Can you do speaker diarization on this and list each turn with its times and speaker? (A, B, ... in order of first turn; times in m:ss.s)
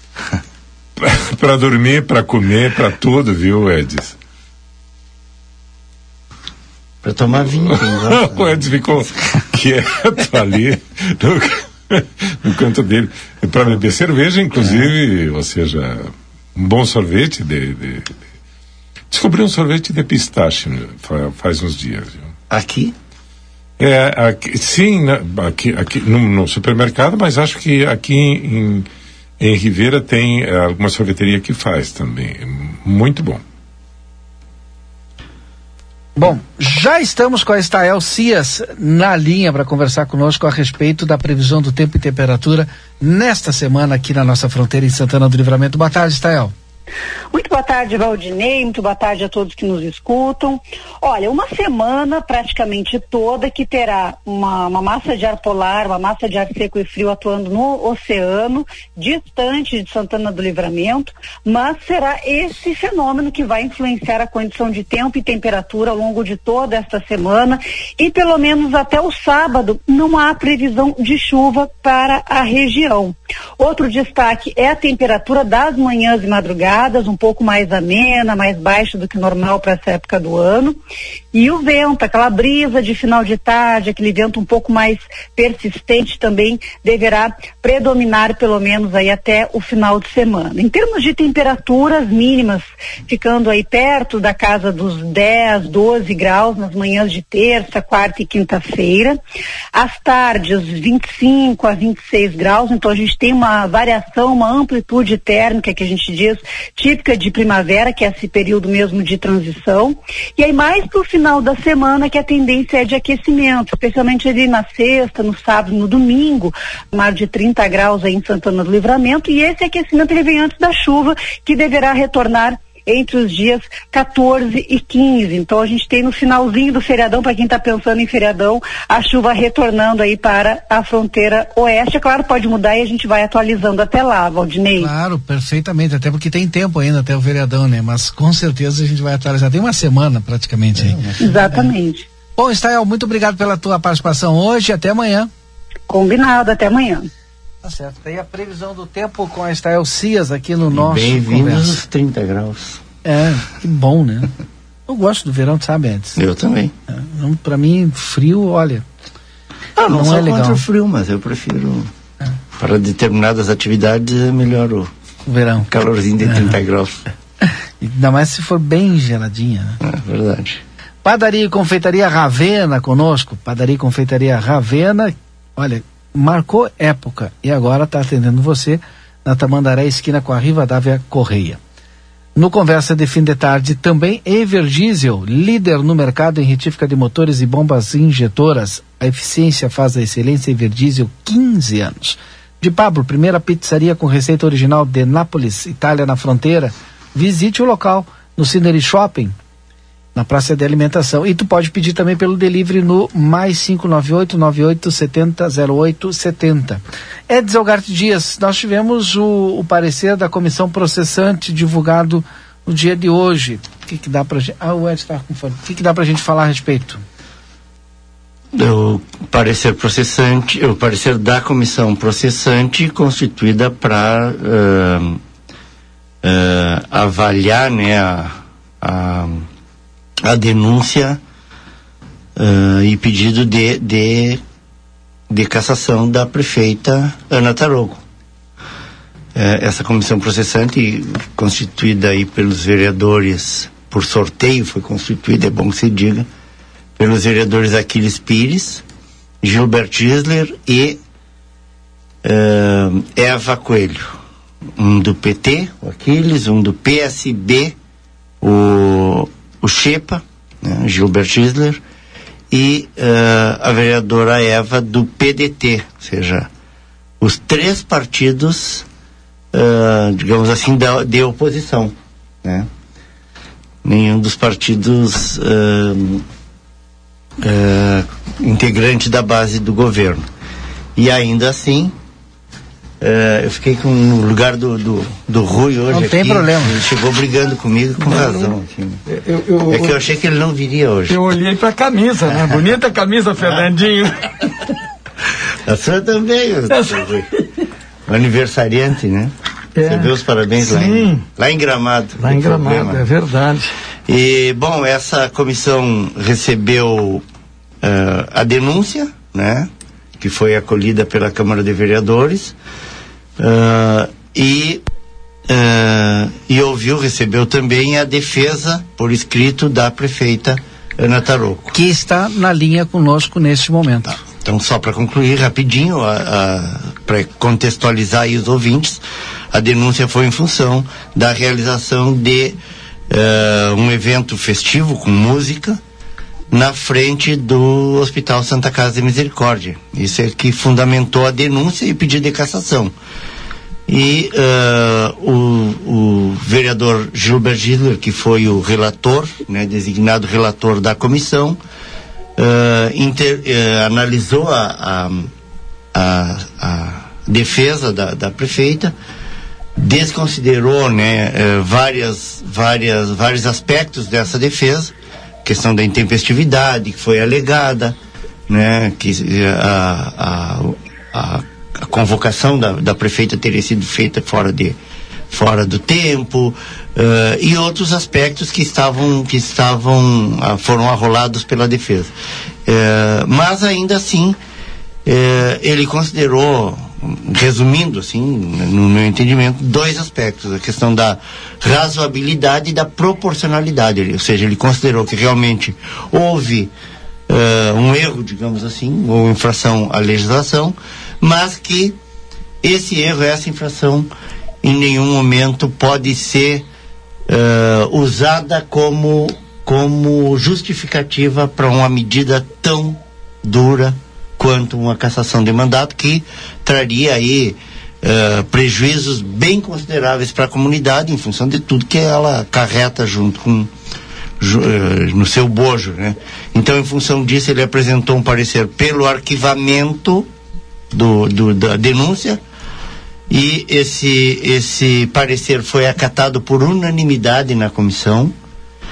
0:01.0-0:04.2 A
0:07.0-0:09.1 B
0:07.6-0:18.1 A
0:14.6-0:14.9 B
0:19.1-0:22.3 A
0:22.5-0:22.9 B
0:23.8-0:28.9 A
0:29.4-0:33.4 A
0:36.2-0:46.5 C
0:47.3-1:20.8 D
1:21.3-1:39.2 D
1:39.7-2:14.9 D
2:14.8-2:21.0 C
2:20.8-2:21.3 B
2:21.2-2:22.1 D
2:22.4-2:25.3 C
2:25.9-2:27.1 D
2:27.6-2:31.8 C
2:30.7-2:32.8 B
2:33.0-2:34.3 C
2:34.9-2:36.2 C
2:36.2-2:36.7 B
2:36.9-2:38.8 C
2:39.8-2:41.9 B
2:39.9-2:40.6 C
2:42.6-2:44.9 B
2:45.3-2:45.7 C
2:45.7-2:47.0 B
2:46.2-2:46.5 C
2:47.8-2:49.8 C
2:49.8-2:50.6 B
2:51.0-3:01.6 C
3:02.4-3:19.3 C
3:20.1-3:37.0 C
3:38.5-3:45.2 B
3:46.2-3:49.4 B
3:50.2-3:51.2 B
3:52.4-3:54.4 B
3:55.3-3:58.0 B
3:59.3-4:06.2 B
4:07.0-4:08.8 B
4:09.4-4:11.0 B
4:12.2-4:14.2 B
4:14.8-4:17.7 B
4:18.4-4:21.8 B
4:22.5-4:26.5 B
4:27.2-4:28.8 B
4:29.5-4:32.7 B
4:33.8-4:36.2 B
4:37.4-4:40.2 B
4:41.0-4:41.9 B
4:43.0-4:49.0 B
4:45.9-4:46.7 C
4:48.1-4:48.5 E
4:49.1-4:50.0 E
4:49.7-4:51.2 B
4:51.1-4:54.2 E
4:55.6-4:57.3 B
4:56.7-4:57.1 E
4:58.1-5:03.0 B
4:59.8-5:00.1 E
5:00.6-5:01.2 E
5:02.2-5:03.7 E
5:04.1-5:07.2 B
5:07.8-5:12.5 B
5:13.4-5:14.8 B
5:15.5-5:21.8 B
5:21.7-5:24.2 C
5:24.2-5:32.6 B
5:33.1-5:35.8 B
5:36.5-5:42.9 B
5:43.9-5:51.6 B
5:52.4-5:55.3 B
5:55.9-5:58.9 B
5:59.8-6:04.9 B
6:05.4-6:08.0 B
6:08.5-6:14.8 B
6:15.3-6:22.1 B
6:22.6-6:24.4 B
6:25.0-6:36.7 B
6:37.3-6:42.0 B
6:42.6-6:44.1 B
6:44.6-6:46.6 B
6:47.3-7:03.7 B
7:04.4-7:10.3 B
7:10.9-7:12.4 B
7:13.3-7:18.3 B